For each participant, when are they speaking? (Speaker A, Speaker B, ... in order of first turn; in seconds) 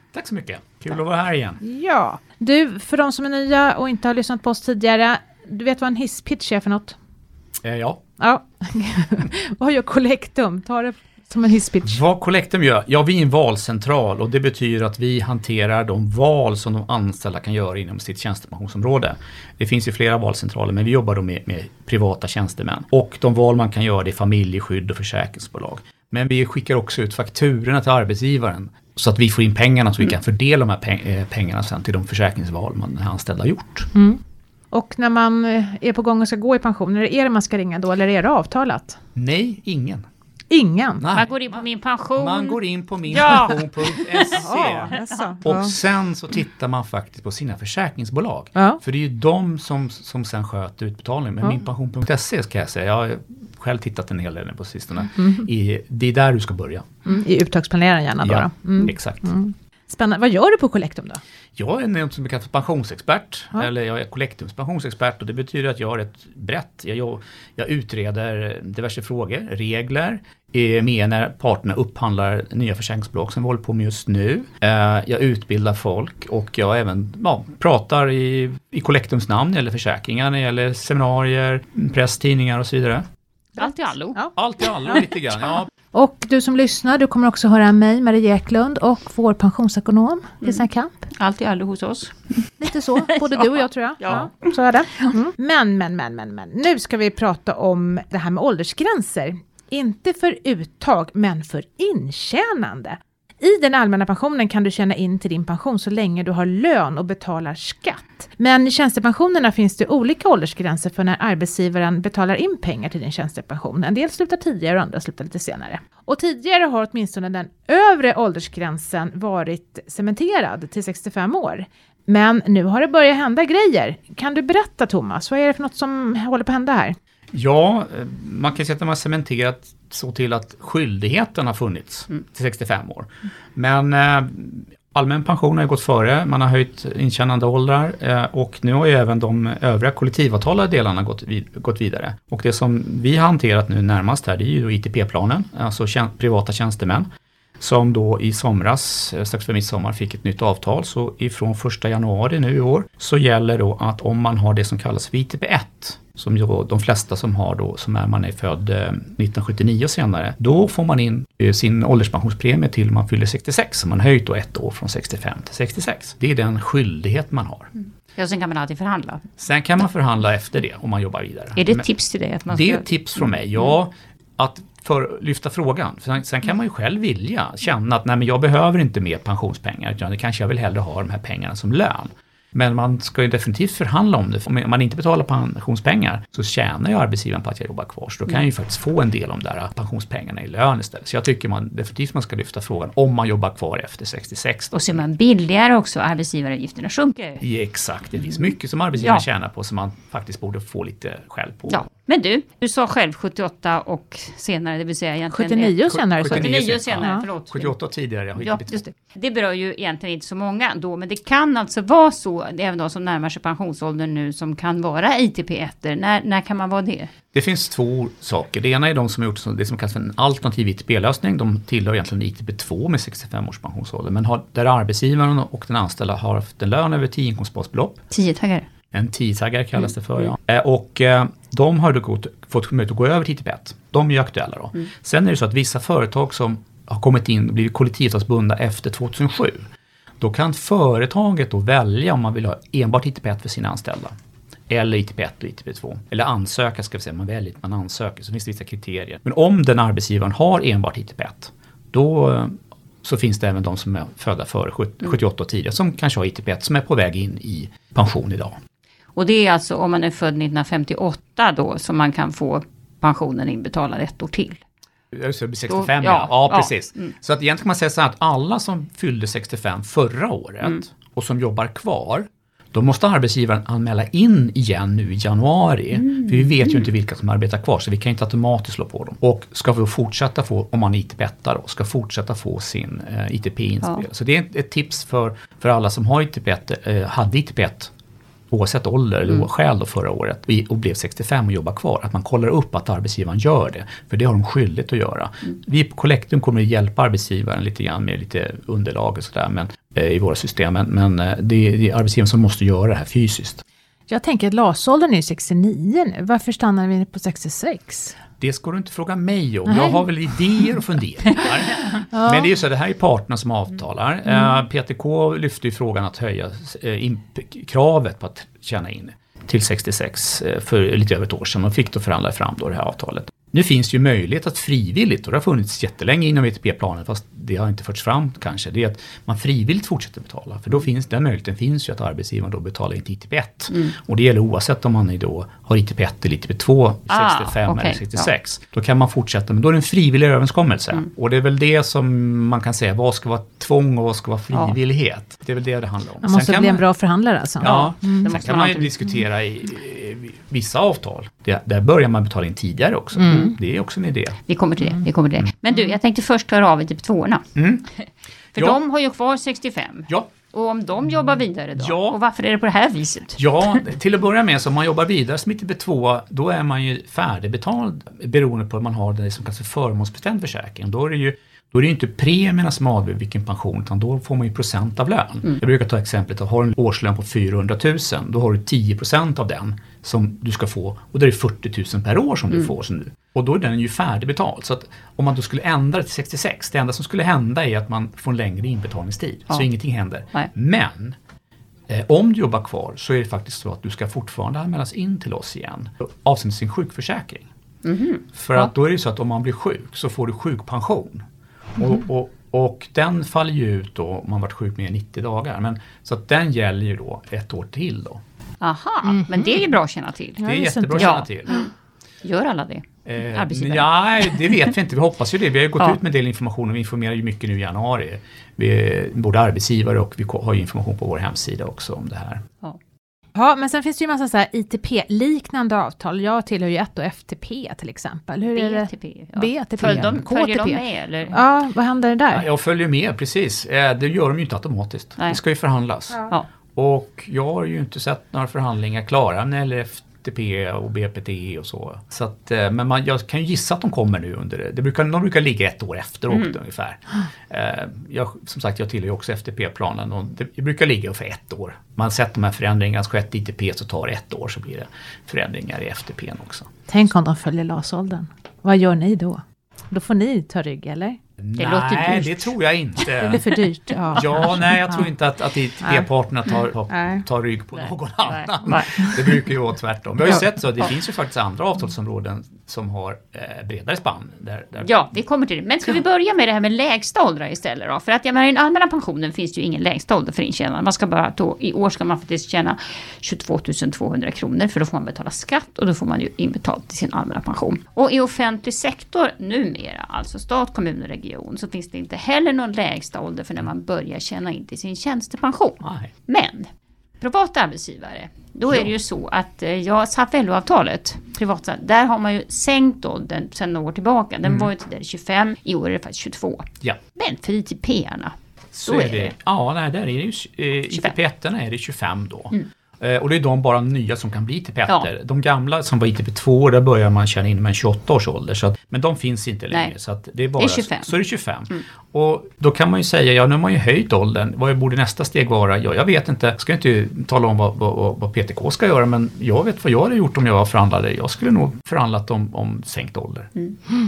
Speaker A: 0.1-1.6, 7.6-8.0, 11.8-33.9, 39.1-40.1, 41.0-41.6, 42.2-56.9, 58.2-59.3, 61.6-83.0, 84.4-85.7, 127.3-147.1, 147.6-167.7, 169.4-171.9, 172.5-195.0, 197.4-201.9, 205.9-208.8, 217.3-228.0, 228.9-244.1, 244.7-258.6, 265.1-287.9, 288.5-303.6, 308.4-346.8, 347.6-354.4, 357.6-357.9, 361.8-362.2, 363.4-391.2, 391.9-397.5, 398.3-401.2, 401.8-408.2, 410.4-411.6, 413.1-422.4, 432.3-456.7, 461.4-463.5, 464.1-474.9, 495.8-496.1, 504.4-504.7, 508.7-533.5
Speaker B: 1.6-7.0, 8.2-12.0, 34.0-39.0, 40.5-41.0, 44.3-45.8, 55.2-55.5, 57.0-61.2, 83.6-84.3, 85.9-91.1, 92.6-127.0, 205.3-207.2, 304.1-308.1, 309.7-310.0, 312.1-312.5, 346.2-348.3, 353.1-353.5, 409.1-409.6, 410.4-411.1, 423.3-432.4, 456.9-461.2, 463.2-465.1, 466.9-467.2
Speaker C: 41.1-45.3, 83.6-84.2, 91.2-92.4, 93.0-94.3, 168.2-169.3, 171.6-172.8, 194.7-197.4, 199.0-199.2, 201.7-207.7, 208.3-217.1, 228.1-228.7, 259.1-264.6, 265.7-267.1, 337.1-338.3, 347.6-348.9, 354.5-357.5, 358.0-363.4, 397.8-398.7, 408.6-411.7, 412.2-414.5, 428.5-431.4, 461.6-463.3, 468.2-469.3, 474.8-496.7, 497.2-508.4, 508.9-509.3, 520.6-521.1